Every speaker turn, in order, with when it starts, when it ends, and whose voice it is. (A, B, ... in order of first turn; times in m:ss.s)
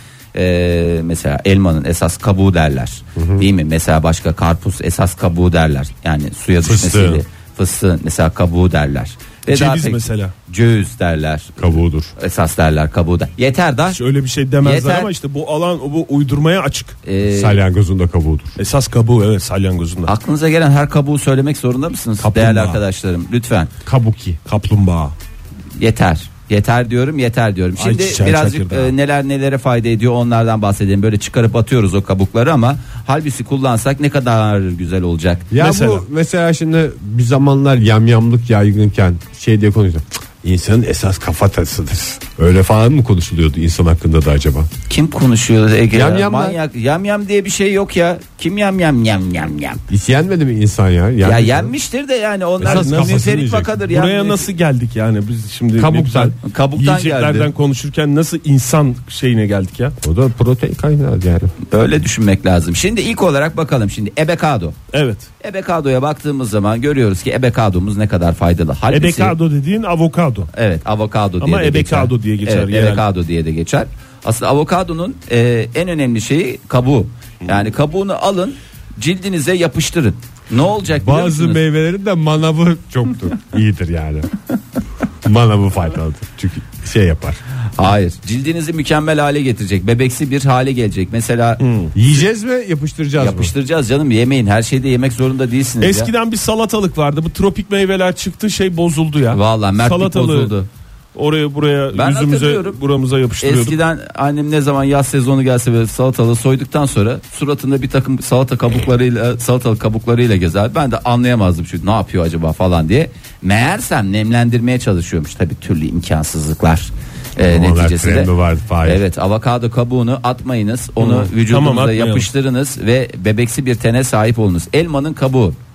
0:00.3-0:14.0 A
0:03.2-0:03.4 B
0:06.6-0:07.2 B
0:09.5-0:10.3 C
0:11.6-0:12.1 B
0:13.9-0:17.0 C
0:14.6-0:15.1 A
0:17.0-0:17.6 A
0:17.2-0:18.6 B
0:18.6-0:20.1 C
0:20.1-0:23.7 A
0:22.2-0:22.8 C
0:23.8-0:24.4 B
0:24.5-0:25.1 C
0:25.8-0:35.5 A
0:27.8-0:28.9 C
0:35.5-0:44.7 B
0:35.6-0:36.0 C
0:44.9-0:49.8 A
0:45.9-0:46.6 B
0:49.9-0:51.7 B
0:51.2-0:54.5 A
0:52.6-0:53.7 B
0:52.6-0:53.3 C
0:53.8-1:00.0 C
0:55.8-0:56.4 B
0:56.4-0:57.5 A
1:00.0-1:01.6 B
1:01.7-1:04.8 A
1:04.9-1:05.3 C
1:05.4-1:09.4 A
1:08.9-1:10.5 C
1:10.5-1:21.6 A
1:11.4-1:13.0 C
1:21.0-1:24.3 B
1:25.2-1:27.4 B
1:27.8-1:31.6 A
1:31.6-1:31.9 C
1:32.0-1:33.5 B
1:33.2-1:36.1 A
1:35.8-1:40.5 C
1:39.3-1:40.7 A
1:41.2-1:43.8 C
1:41.9-1:42.8 A
1:43.4-1:58.3 A
1:57.5-1:59.0 B
1:58.8-2:05.6 A
2:01.0-2:02.3 C